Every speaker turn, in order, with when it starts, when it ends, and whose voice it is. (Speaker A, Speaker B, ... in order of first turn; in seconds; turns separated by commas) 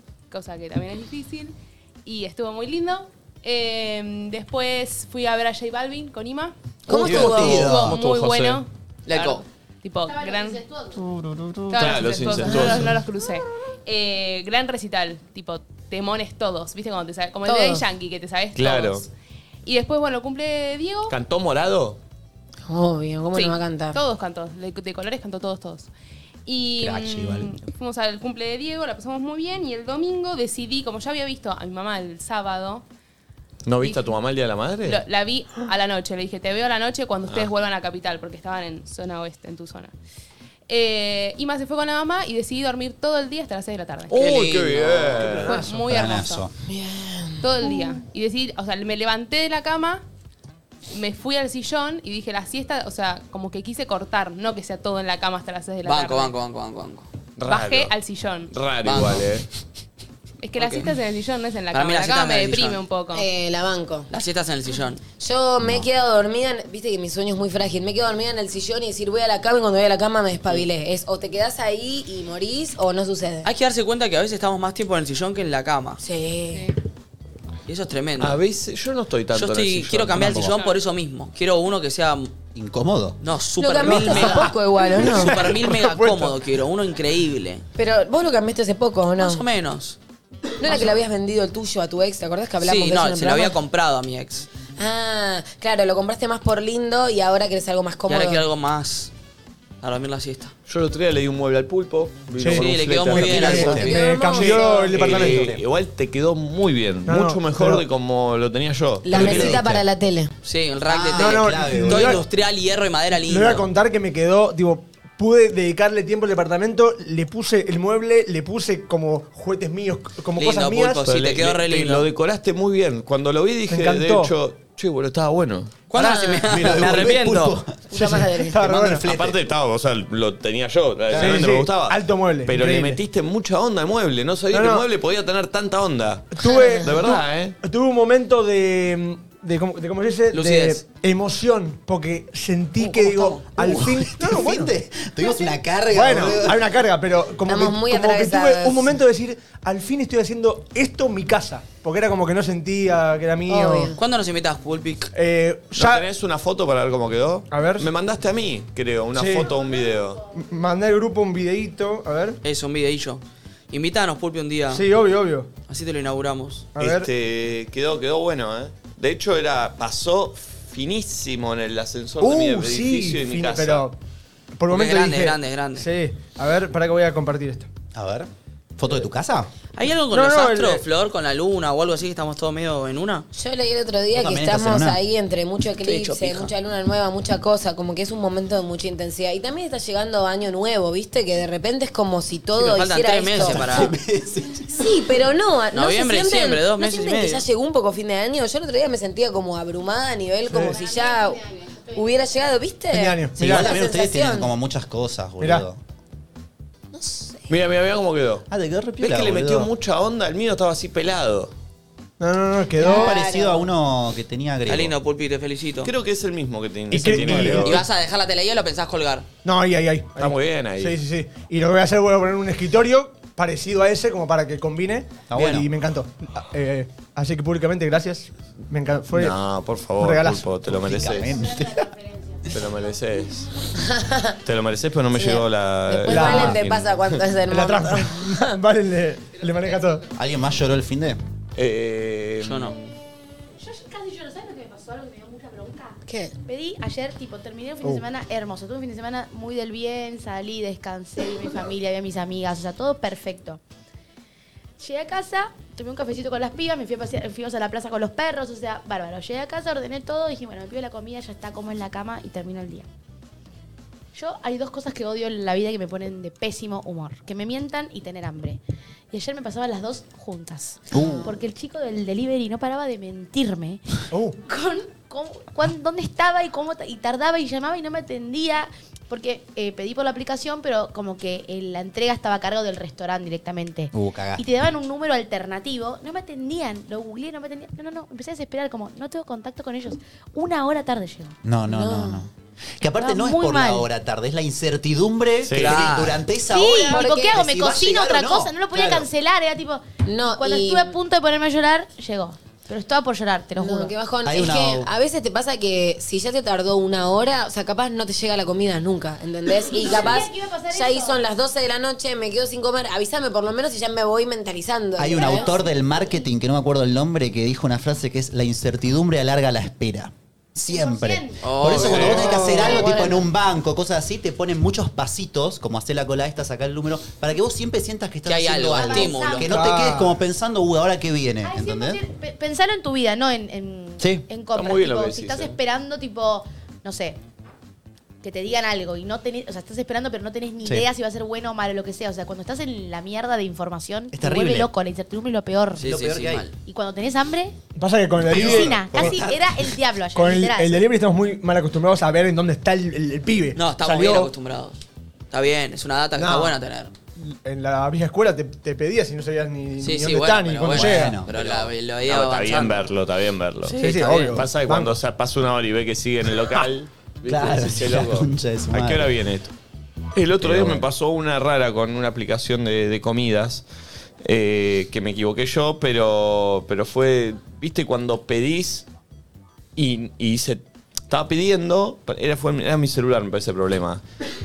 Speaker A: 0.3-10.6, Speaker B: 6.9-7.7, Speaker C: 6.9-8.0, Speaker D: 7.0-8.6, Speaker E: 9.1-9.4, Speaker F: 10.1-11.0, Speaker D: 11.3-13.0, Speaker A: 11.7-19.1, Speaker B: 17.4-17.8, Speaker D: 18.5-19.1, Speaker A: 19.6-21.1, Speaker D: 21.1-22.0, Speaker B: 22.7-24.0, Speaker A: 23.3-25.9, Speaker A: 26.4-32.8, Speaker C: 26.8-27.6, Speaker D: 33.6-35.0, Speaker A: 33.8-34.1, Speaker A: 34.8-39.9, Speaker A: 40.7-44.2, Speaker E: 44.1-45.4, Speaker D: 44.1-45.6, Speaker A: 45.4-46.5, Speaker C: 45.6-46.5, Speaker B: 46.7-47.9, Speaker A: 47.4-50.0, Speaker A: 50.9-56.3, Speaker E: 55.8-57.1, Speaker D: 57.4-57.9, Speaker A: 57.5-58.5, Speaker D: 58.5-59.5, Speaker E: 58.8-59.3, Speaker A: 60.4-63.3, Speaker E: 60.6-60.9, Speaker E: 61.7-62.8, Speaker B: 63.1-64.1, Speaker E: 64.1-65.0, Speaker B: 65.2-73.5, Speaker C: 65.6-65.9, Speaker E: 73.4-76.0, Speaker B: 76.0-76.7, Speaker E: 77.7-78.4, Speaker D: 78.2-80.4, Speaker E: 79.3-82.3, Speaker C: 80.2-80.5, Speaker A: 80.4-80.8, Speaker C: 82.5-83.2, Speaker E: 83.2-87.6, Speaker B: 83.6-85.3, Speaker C: 83.8-84.5, Speaker G: 85.0-86.4, Speaker B: 87.8-89.4, Speaker E: 89.2-90.0, Speaker B: 90.6-93.5, Speaker E: 92.6-94.5, Speaker B: 94.8-98.4, Speaker E: 98.1-99.1, Speaker E: 99.8-100.5, Speaker D: 100.7-109.6, Speaker G: 102.4-105.5, Speaker E: 102.5-104.0, Speaker C: 103.7-103.9, Speaker B: 103.8-105.0, Speaker C: 105.0-105.4, Speaker G: 107.0-107.8, Speaker B: 109.0-110.3, Speaker C: 109.1-109.8, Speaker E: 110.4-113.6, Speaker C: 110.9-112.2, Speaker G: 111.1-112.2, Speaker G: 113.2-121.1, Speaker E: 120.4-122.0, Speaker D: 121.0-125.7, Speaker G: 123.7-124.3, Speaker E: 125.9-127.5, Speaker B: 126.0-126.5, Speaker C: 126.0-129.4, Speaker B: 127.9-128.5, Speaker G: 127.9-129.0, Speaker D: 129.0-137.6, Speaker C: 131.1-131.5, Speaker G: 131.2-133.0, Speaker G: 134.5-134.8, Speaker G: 136.3-144.7, Speaker B: 136.4-137.0, Speaker E: 140.3-140.8, Speaker E: 142.8-143.4, Speaker C: 143.6-146.6, Speaker G: 145.9-153.9, Speaker B: 147.5-148.9, Speaker B: 153.5-154.0, Speaker E: 153.9-155.1, Speaker G: 155.1-156.1, Speaker D: 155.7-160.2, Speaker G: 157.5-157.9, Speaker G: 159.1-159.6, Speaker G: 160.3-162.4, Speaker E: 162.4-164.8, Speaker G: 164.7-165.5, Speaker E: 165.7-166.7, Speaker G: 166.8-167.1, Speaker D: 166.8-173.9, Speaker G: 172.2-174.0, Speaker G: 174.5-177.7, Speaker E: 174.7-175.9, Speaker C: 177.9-179.5, Speaker E: 179.7-183.2, Speaker G: 180.1-180.8, Speaker B: 183.3-193.9, Speaker C: 184.1-185.0, Speaker E: 185.8-186.5, Speaker E: 192.5-193.9, Speaker C: 193.4-195.2, Speaker B: 194.8-201.4, Speaker E: 195.7-197.4, Speaker G: 200.5-200.8, Speaker F: 200.7-202.4, Speaker B: 201.9-204.5, Speaker G: 202.9-203.7, Speaker C: 203.3-205.8, Speaker G: 205.4-205.6, Speaker F: 206.9-207.3, Speaker D: 207.5-208.4, Speaker C: 208.5-209.7, Speaker D: 209.0-211.5, Speaker G: 212.2-213.2, Speaker B: 212.8-213.7, Speaker C: 212.8-214.9, Speaker E: 214.7-215.9, Speaker D: 215.8-217.8, Speaker G: 216.9-217.7, Speaker C: 217.0-217.8, Speaker E: 217.6-219.2, Speaker G: 219.4-229.3, Speaker D: 220.2-221.0, Speaker C: 225.3-225.7, Speaker D: 229.1-231.4, Speaker G: 230.0-230.4, Speaker C: 230.7-231.8, Speaker F: 231.2-232.6, Speaker D: 232.5-233.5, Speaker B: 233.9-234.3, Speaker D: 234.4-237.2, Speaker B: 235.1-238.5, Speaker G: 236.1-236.7, Speaker G: 237.5-240.0, Speaker C: 240.1-241.2, Speaker D: 241.6-242.9, Speaker E: 242.4-242.7, Speaker F: 243.6-253.6, Speaker B: 246.1-246.3, Speaker F: 254.8-262.9, Speaker F: 264.1-273.8, Speaker C: 270.9-271.3, Speaker B: 271.0-271.2, Speaker G: 274.1-274.4, Speaker F: 274.4-291.4, Speaker C: 283.9-284.4, Speaker C: 291.4-299.1, Speaker B: 291.7-292.2, Speaker F: 292.9-293.9, Speaker D: 295.4-295.9, Speaker E: 295.6-296.2, Speaker F: 296.5-303.9, Speaker B: 296.9-297.4, Speaker B: 300.0-300.9, Speaker B: 303.6-315.5, Speaker C: 304.2-304.9, Speaker F: 309.6-311.2, Speaker C: 315.0-332.0, Speaker F: 315.1-315.5, Speaker F: 320.6-321.4, Speaker E: 321.4-322.4, Speaker D: 321.8-322.1, Speaker G: 321.9-323.0, Speaker B: 322.5-323.2, Speaker E: 328.2-329.5, Speaker F: 328.7-329.6, Speaker G: 329.5-330.1, Speaker F: 331.4-337.2, Speaker D: 334.5-335.6, Speaker F: 338.2-345.8, Speaker C: 344.1-344.7, Speaker E: 345.8-346.5, Speaker C: 345.8-346.4, Speaker F: 346.6-347.5, Speaker G: 347.8-349.2, Speaker C: 348.2-349.7, Speaker F: 348.3-350.8, Speaker G: 350.1-354.3, Speaker E: 353.5-354.8, Speaker E: 355.3-356.9, Speaker G: 356.2-356.6, Speaker G: 357.1-361.2, Speaker E: 359.8-362.9, Speaker C: 360.7-361.3, Speaker D: 361.3-369.5, Speaker E: 363.6-364.4, Speaker G: 363.8-365.0, Speaker C: 367.2-369.1, Speaker D: 370.1-373.6, Speaker C: 370.4-370.9, Speaker D: 374.2-378.9, Speaker D: 379.8-384.0